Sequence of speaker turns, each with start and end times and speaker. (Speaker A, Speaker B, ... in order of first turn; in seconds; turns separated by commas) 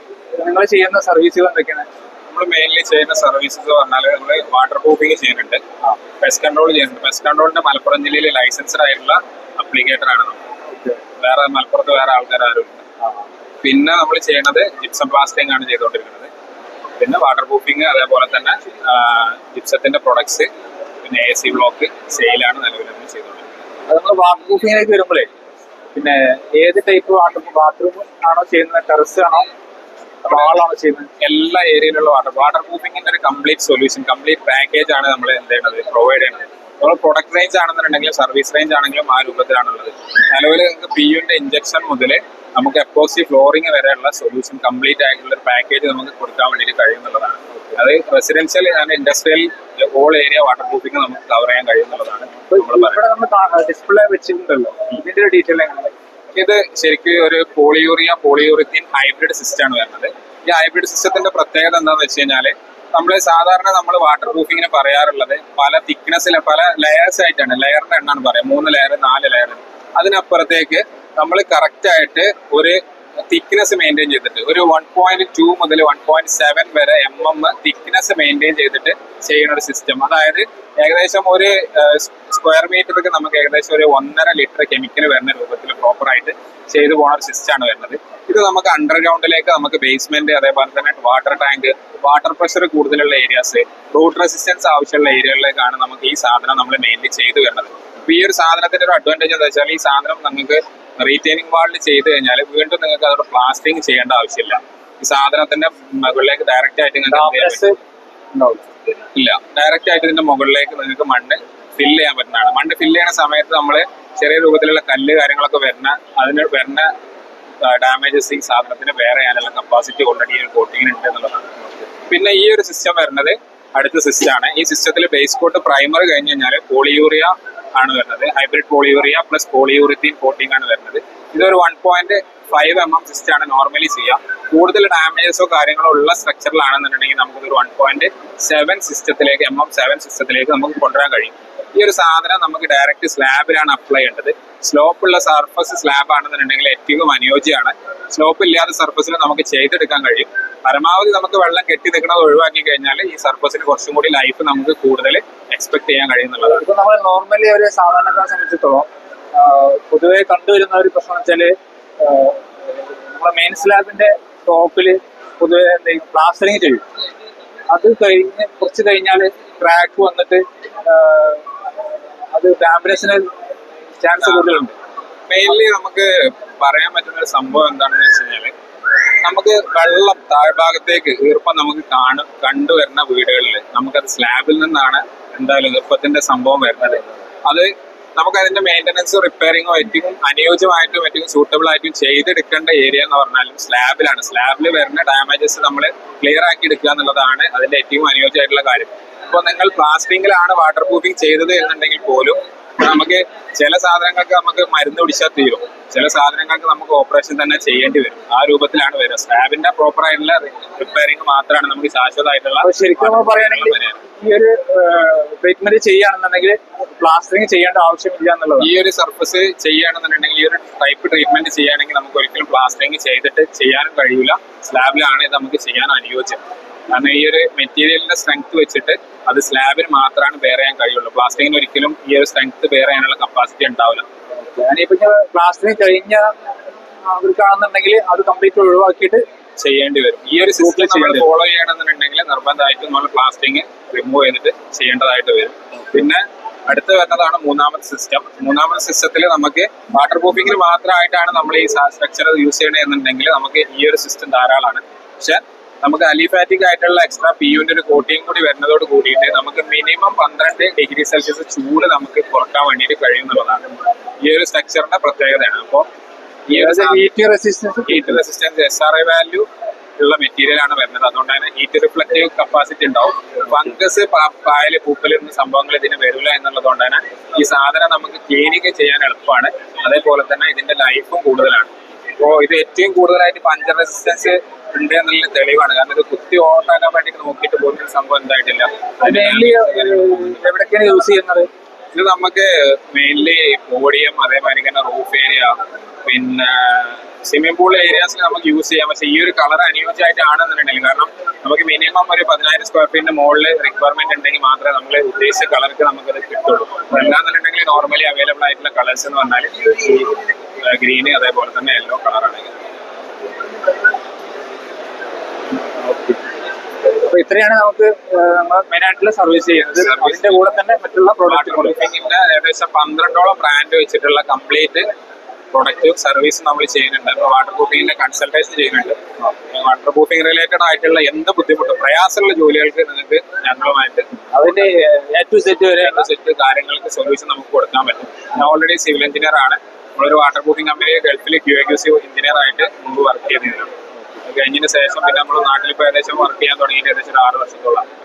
Speaker A: 0.4-1.9, Speaker B: 2.3-10.4, Speaker B: 11.2-12.9, Speaker B: 13.6-16.3, Speaker B: 17.0-20.5, Speaker B: 21.0-23.5, Speaker A: 23.9-25.3, Speaker A: 25.9-29.5, Speaker A: 30.2-31.1, Speaker B: 31.2-53.0, Speaker A: 52.5-55.9, Speaker B: 56.3-107.7, Speaker A: 107.1-107.8, Speaker A: 108.3-108.6, Speaker B: 109.1-116.9, Speaker B: 117.6-121.5, Speaker B: 122.1-156.6, Speaker A: 156.4-166.8, Speaker A: 167.7-171.4, Speaker A: 172.3-173.2, Speaker A: 174.0-174.7, Speaker B: 174.2-174.6, Speaker B: 175.3-178.5, Speaker B: 179.2-214.0, Speaker A: 212.6-218.7, Speaker B: 218.6-234.0, Speaker A: 234.4-236.3, Speaker A: 237.1-239.2, Speaker B: 239.6-263.7, Speaker A: 240.5-241.2, Speaker B: 264.2-265.9, Speaker B: 266.5-267.0, Speaker A: 266.5-268.2, Speaker B: 267.9-269.5, Speaker B: 270.0-290.4, Speaker A: 289.0-291.5, Speaker B: 291.9-312.6, Speaker A: 315.8-316.2, Speaker A: 317.0-321.8, Speaker B: 319.7-320.4, Speaker B: 321.2-324.9, Speaker B: 325.5-334.1, Speaker A: 334.3-336.1, Speaker B: 335.8-343.7, Speaker B: 344.2-347.9